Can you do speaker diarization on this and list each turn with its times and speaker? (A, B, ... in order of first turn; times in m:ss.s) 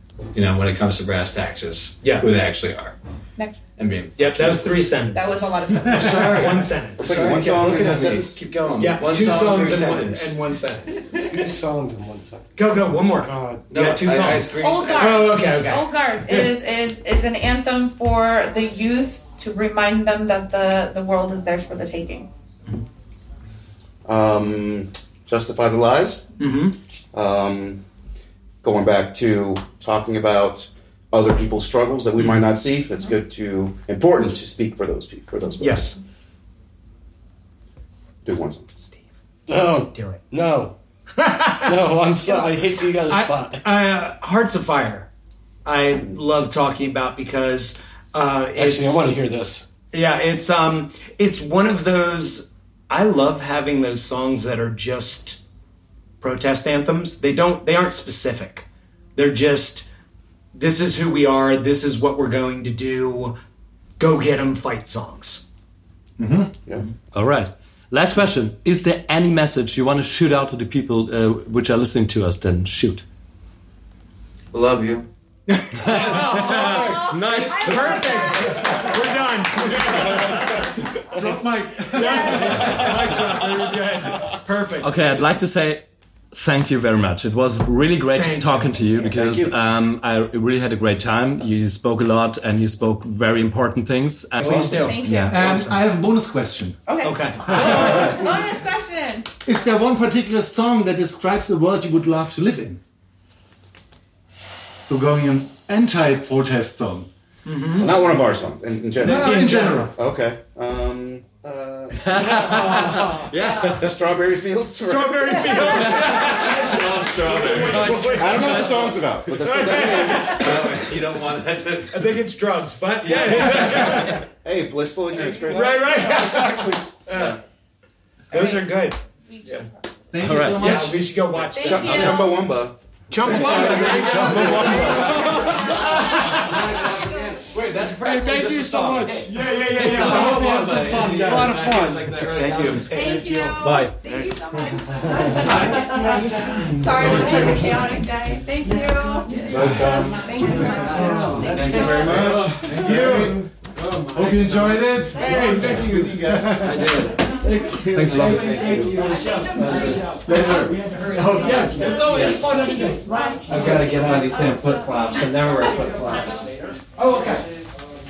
0:00.3-0:03.0 A
0:02.0-0:02.3 B
0:03.8-0:04.7 A
0:04.2-0:08.1 B
0:05.1-0:06.6 C
0:05.9-0:10.4 A
0:07.0-0:08.4 D
0:08.8-0:11.1 B
0:11.1-0:12.5 E
0:12.6-0:16.5 B
0:13.2-0:14.3 E
0:13.7-0:15.5 A
0:14.4-0:22.3 C
0:24.0-0:26.3 D
0:26.4-0:26.8 B
0:27.1-0:27.8 D
0:28.6-0:35.9 D
0:35.6-0:36.0 B
0:38.2-0:38.8 D
0:39.5-0:40.7 E
0:39.9-0:40.2 B
0:41.2-0:42.5 B
0:41.6-0:43.7 E
0:43.0-0:45.1 B
0:45.6-0:49.2 B
0:48.5-0:49.6 E
0:49.9-0:55.4 B
0:56.2-0:59.9 B
1:00.5-1:03.4 B
1:04.0-1:05.4 B
1:06.2-1:06.5 F
1:07.1-1:13.0 G
1:14.5-1:15.1 A
1:15.5-1:20.7 B
1:15.8-1:18.8 G
1:16.8-1:18.5 C
1:21.1-1:22.8 F
1:21.9-1:25.0 B
1:22.6-1:23.1 G
1:24.8-1:35.3 G
1:28.1-1:29.5 B
1:34.4-1:35.8 B
1:34.8-1:35.5 C
1:35.3-1:36.9 F
1:36.9-1:39.3 C
1:37.0-1:38.3 B
1:37.5-1:38.2 F
1:39.4-1:42.8 F
1:44.8-1:47.1 F
1:47.4-1:48.0 B
1:47.8-1:55.9 D
1:49.0-1:49.9 B
1:49.0-1:49.9 F
1:52.0-1:53.9 G
1:54.8-1:58.8 B
1:55.8-1:56.6 G
1:56.1-1:58.1 A
1:57.5-1:59.9 G
1:58.1-2:00.6 D
1:59.3-2:01.0 B
2:00.3-2:02.0 A
2:01.9-2:04.2 B
2:03.0-2:04.1 G
2:04.3-2:06.1 D
2:05.4-2:07.4 B
2:06.0-2:06.7 E
2:07.1-2:07.4 D
2:08.3-2:08.7 C
2:08.3-2:09.0 B
2:09.3-2:09.7 C
2:10.1-2:11.0 F
2:10.2-2:10.6 G
2:10.5-2:12.3 B
2:11.5-2:12.3 C
2:11.6-2:14.8 D
2:13.1-2:16.6 B
2:13.2-2:15.9 G
2:13.8-2:15.8 A
2:15.4-2:16.0 C
2:16.3-2:23.6 A
2:18.1-2:21.6 G
2:18.1-2:19.1 E
2:19.2-2:22.0 B
2:19.8-2:22.8 F
2:22.8-2:32.3 C
2:23.5-2:23.9 G
2:25.3-2:26.7 A
2:26.8-2:27.8 F
2:27.0-2:27.4 G
2:29.3-2:29.6 A
2:29.5-2:30.2 D
2:29.5-2:33.5 F
2:30.3-2:32.0 A
2:31.0-2:33.4 D
2:34.1-2:37.1 F
2:35.1-2:37.0 D
2:36.6-2:38.9 G
2:36.7-2:40.6 A
2:38.1-2:44.0 B
2:38.9-2:39.9 C
2:39.6-2:39.9 G
2:40.1-2:42.0 F
2:41.6-2:42.5 A
2:42.0-2:42.4 G
2:42.0-2:43.9 C
2:43.4-2:46.5 A
2:46.4-2:47.7 B